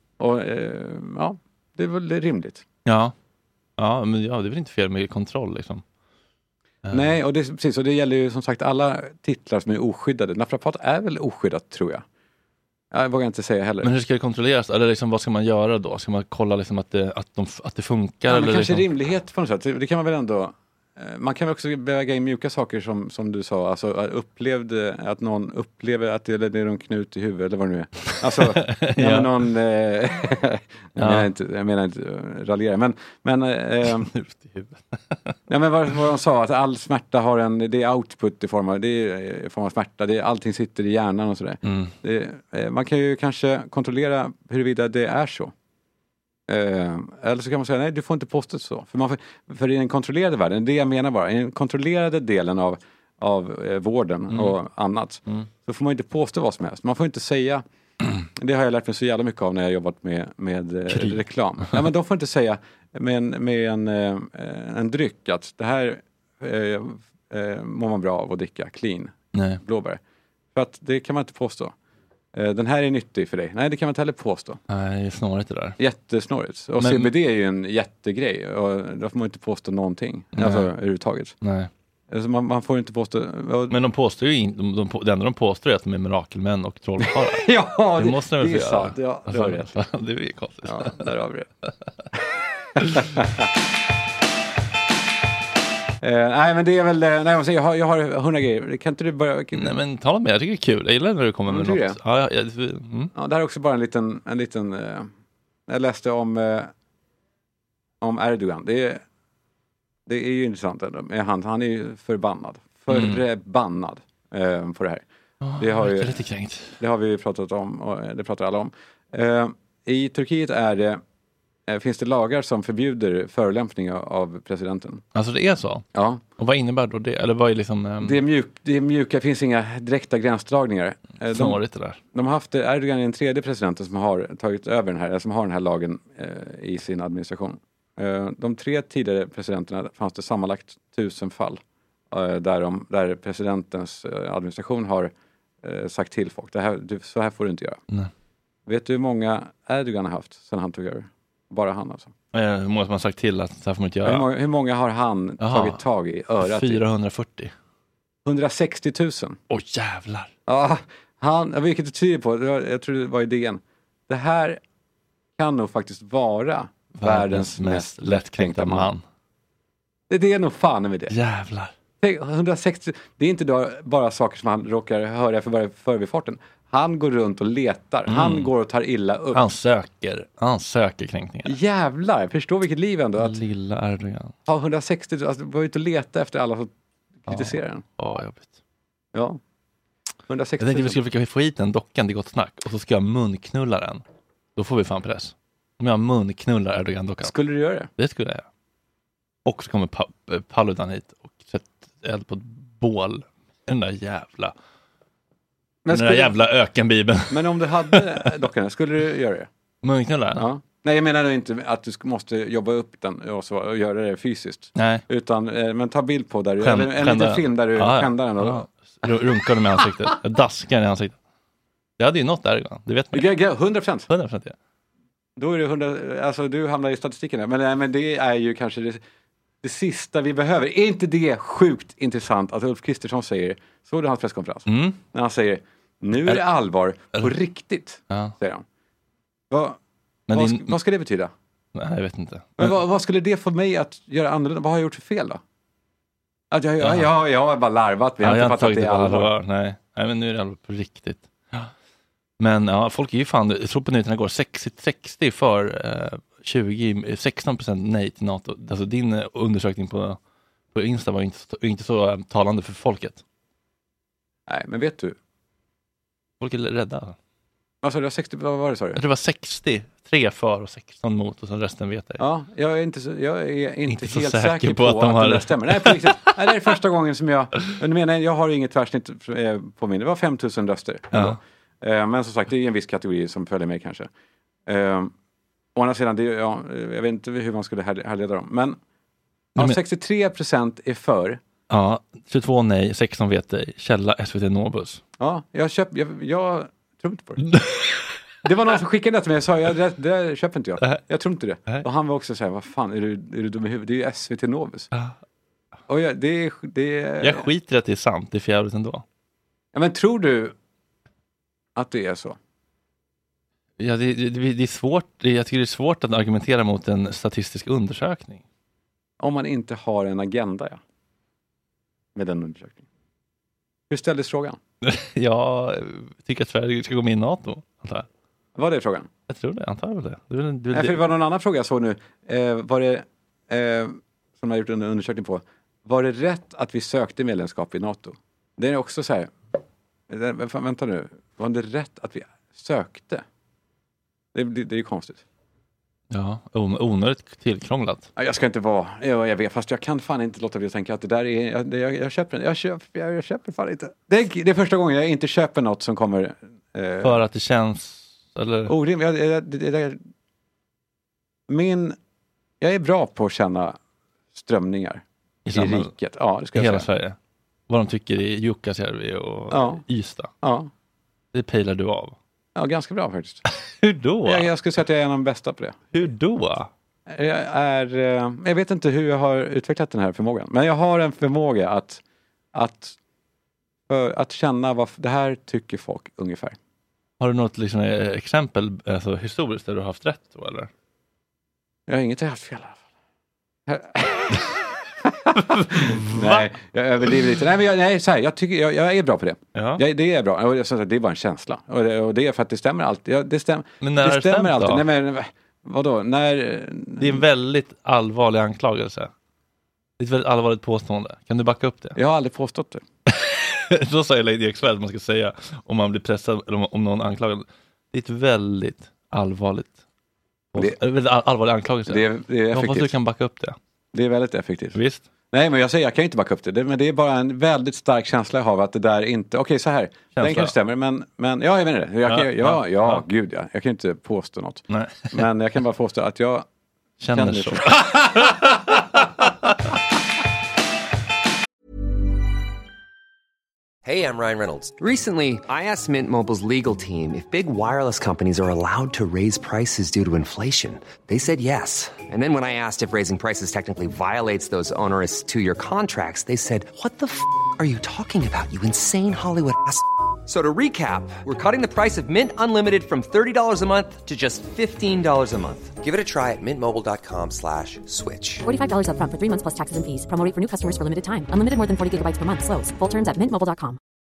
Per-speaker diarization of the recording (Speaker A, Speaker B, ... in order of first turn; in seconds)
Speaker A: 0.2-2.6, 6.9-12.0, 12.9-13.9, 18.3-34.1, 35.5-45.5, 46.5-57.6, 58.4-70.0, 70.5-71.7, 72.3-74.6, 75.8-81.3, 82.1-83.8, 87.2-89.7, 90.7-91.5, 92.8-93.5, 96.0-99.8, 101.5-102.0, 103.1-105.1, 105.7-106.7, 108.0-109.0, 110.1-115.0, 115.6-116.2, 116.8-121.0, 121.7-125.0, 125.9-126.2, 128.0-131.6, 132.1-145.1, 145.6-147.8, 148.7-152.1, 154.0-156.8, 158.2-159.4, 160.5-164.6, 165.4-168.9, 170.1-171.1, 172.0-179.4, 181.4-183.4, 184.5-186.7, 187.2-187.8, 189.1-189.4, 190.3-191.0, 197.2-197.9, 205.8-206.3, 207.3-209.5, 210.3-218.6, 223.1-224.1, 225.4-229.0, 229.6-238.6, 239.5-239.8, 240.3-241.3, 242.6-245.4, 246.5-249.3, 264.5-265.1, 267.8-269.0, 272.2-284.1, 284.7-285.1, 285.7-288.8, 289.6-291.4, 295.2-297.4, 298.4-304.9, 305.9-307.4, 309.7-310.5, 311.8-312.4, 319.2-320.8, 322.1-322.8, 323.9-324.6, 328.6-329.1, 330.7-339.3, 340.1-343.2, 344.3-345.2, 348.2-357.2, 358.7-360.0, 361.5-361.9, 362.6-363.8, 364.3-366.9, 369.5-369.8, 370.4-370.7, 372.6-373.4, 374.2-375.9, 377.1-382.0, 382.5-383.0, 383.9-386.6, 391.9-392.8, 393.7-394.4, 395.3-407.2, 411.9-412.8, 421.9-422.9, 423.9-424.8, 425.3-436.4, 437.1-438.5
Speaker B: 2.9-3.1, 3.8-5.8, 6.8-7.1, 13.8-18.8, 28.4-29.3, 31.0-31.3, 33.9-35.3, 41.6-41.9, 60.9-61.2, 69.3-69.6, 74.7-75.8, 76.8-77.1, 80.3-80.7, 81.4-81.7, 83.7-91.1, 99.5-103.1, 112.9-113.2, 115.4-116.8, 125.1-125.8, 126.4-128.2, 131.3-132.0, 152.3-154.3, 155.4-155.8, 156.4-157.5, 159.5-160.3, 167.0-169.0, 171.1-171.7, 178.1-178.5, 179.3-181.6, 183.2-184.3, 187.3-188.5, 190.6-194.0, 194.6-197.3, 198.0-198.4, 199.4-204.5, 205.9-208.0, 209.8-210.5, 214.8-215.0, 216.6-221.1, 222.0-223.3, 224.1-224.5, 234.7-235.0, 240.3-240.8, 241.7-242.8, 246.8-247.1, 248.2-251.7, 252.4-260.2, 260.7-263.2, 266.4-267.1, 268.9-272.2, 273.9-276.3, 281.1-281.4, 291.7-295.0, 297.4-297.9, 307.2-309.0, 313.8-318.4, 324.8-328.1, 329.3-331.0, 346.1-348.1, 357.0-358.7, 365.4-365.9, 366.5-367.1, 367.7-370.3, 371.3-372.1, 373.8-374.5, 375.9-376.7, 387.2-390.7, 395.6-396.5, 399.5-399.8, 403.8-404.8, 407.0-409.1, 410.0-411.9, 413.1-419.8, 420.5-423.6, 424.7-425.0, 430.1-430.5, 432.1-433.0, 434.7-435.2, 437.0-439.0
Speaker C: 443.8-468.4
Speaker D: 468.4-473.8